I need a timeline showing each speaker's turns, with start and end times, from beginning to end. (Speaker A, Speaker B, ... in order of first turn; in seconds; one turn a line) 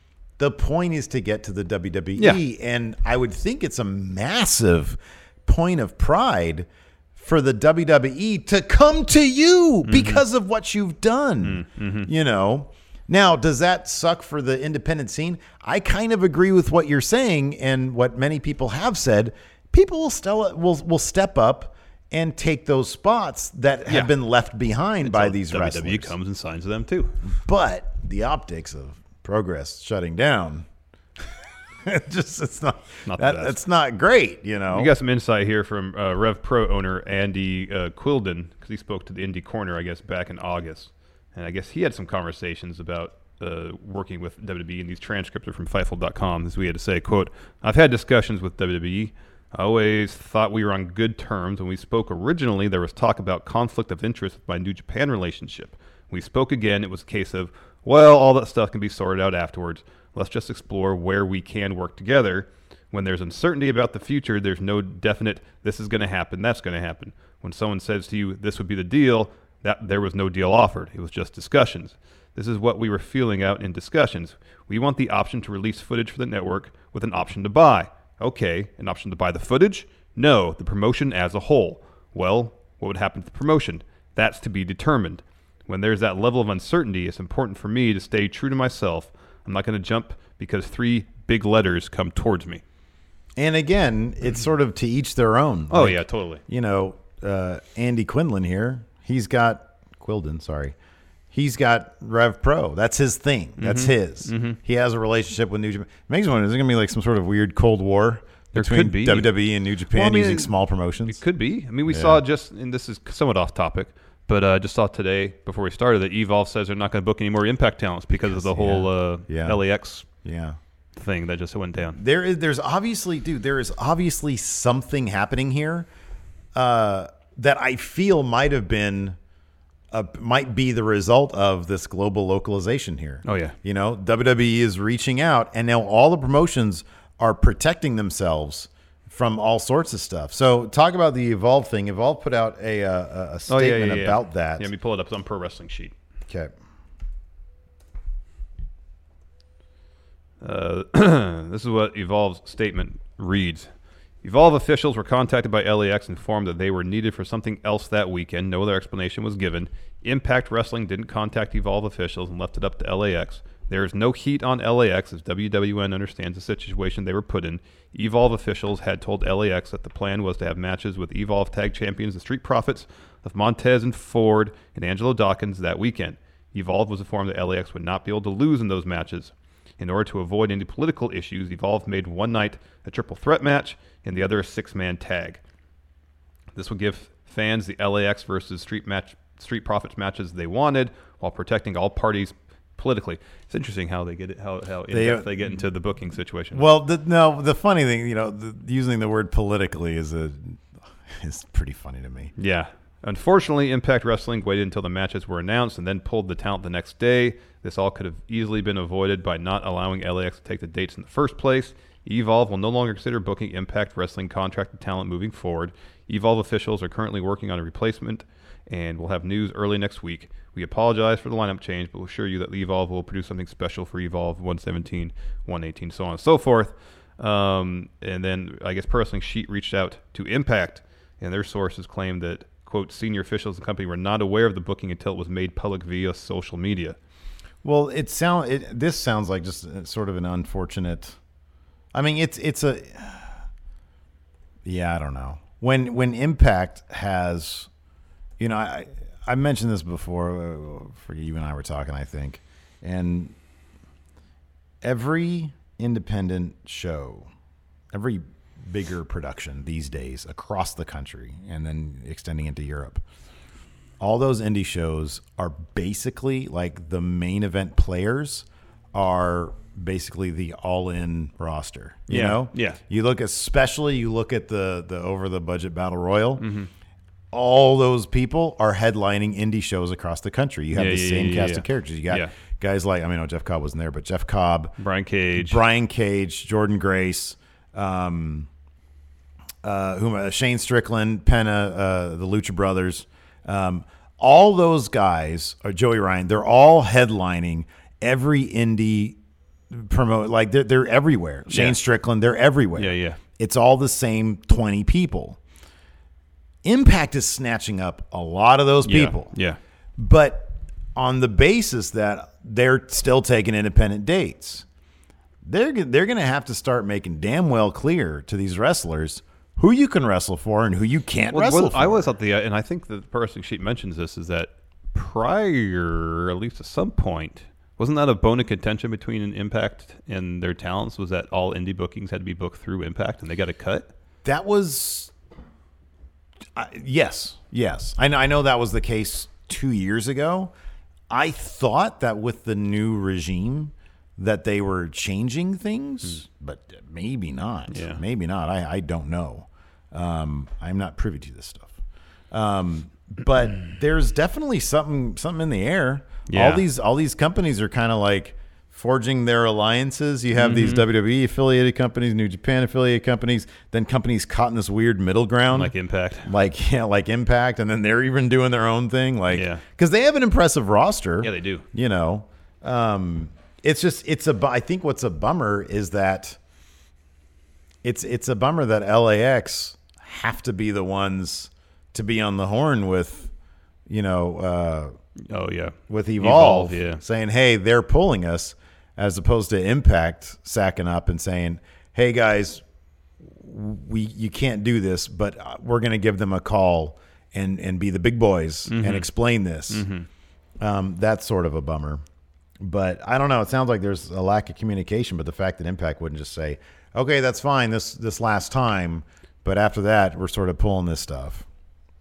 Speaker A: 0.4-26.1
Speaker B: 9.8-10.2
Speaker B: 11.4-12.1
Speaker B: 23.9-24.1
Speaker B: 25.0-27.2
Speaker A: 27.3-30.7
Speaker A: 31.9-34.9
Speaker B: 33.1-33.6
Speaker B: 34.7-92.6
Speaker A: 93.4-100.8
Speaker B: 95.7-96.4
Speaker A: 101.3-111.2
Speaker B: 103.6-104.6
Speaker B: 108.5-109.3
Speaker B: 109.9-110.5
Speaker B: 111.1-120.1
Speaker A: 111.9-112.2
Speaker A: 118.3-119.6
Speaker A: 120.2-120.6
Speaker B: 121.0-122.0
Speaker A: 121.9-125.9
Speaker A: 126.5-129.2
Speaker A: 129.9-144.7
Speaker B: 133.2-133.6
Speaker B: 143.5-145.9
Speaker A: 146.3-146.5
Speaker B: 150.4-153.7
Speaker B: 154.2-185.4
Speaker B: 186.6-196.7
Speaker A: 194.9-195.6
Speaker A: 196.5-202.3
Speaker B: 202.4-237.0
Speaker A: 237.6-241.2
Speaker A: 241.9-243.4
Speaker A: 244.7-247.7
Speaker A: 248.4-253.3
Speaker A: 254.8-257.3
Speaker A: 257.9-263.0
Speaker A: 264.0-276.4
Speaker B: 272.1-272.8
Speaker B: 276.4-276.7
Speaker A: 277.3-284.8
Speaker B: 280.7-282.3
Speaker B: 284.8-285.6
Speaker A: 285.4-288.5
Speaker A: 289.6-299.2
Speaker A: 299.7-305.4
Speaker B: 301.5-301.8
Speaker B: 302.8-303.2
Speaker A: 306.6-309.3
Speaker B: 308.8-309.6
Speaker A: 310.0-314.6
Speaker A: 315.4-322.1
Speaker B: 321.3-333.9
Speaker A: 334.2-335.1
Speaker A: 336.6-340.5
Speaker A: 341.1-351.8
Speaker B: 347.7-348.0
Speaker A: 352.3-365.7
Speaker B: 356.3-356.6
Speaker B: 360.3-360.9
Speaker B: 365.5-366.3
Speaker A: 366.2-376.4
Speaker B: 369.3-369.6
Speaker B: 371.2-371.6
Speaker A: 377.8-383.3
Speaker A: 383.9-385.0
Speaker B: 385.3-387.0
Speaker A: 385.9-392.6
Speaker A: 393.2-399.9
Speaker B: 398.7-399.1
Speaker B: 399.7-400.1
Speaker A: 400.6-402.0
Speaker A: 402.6-411.5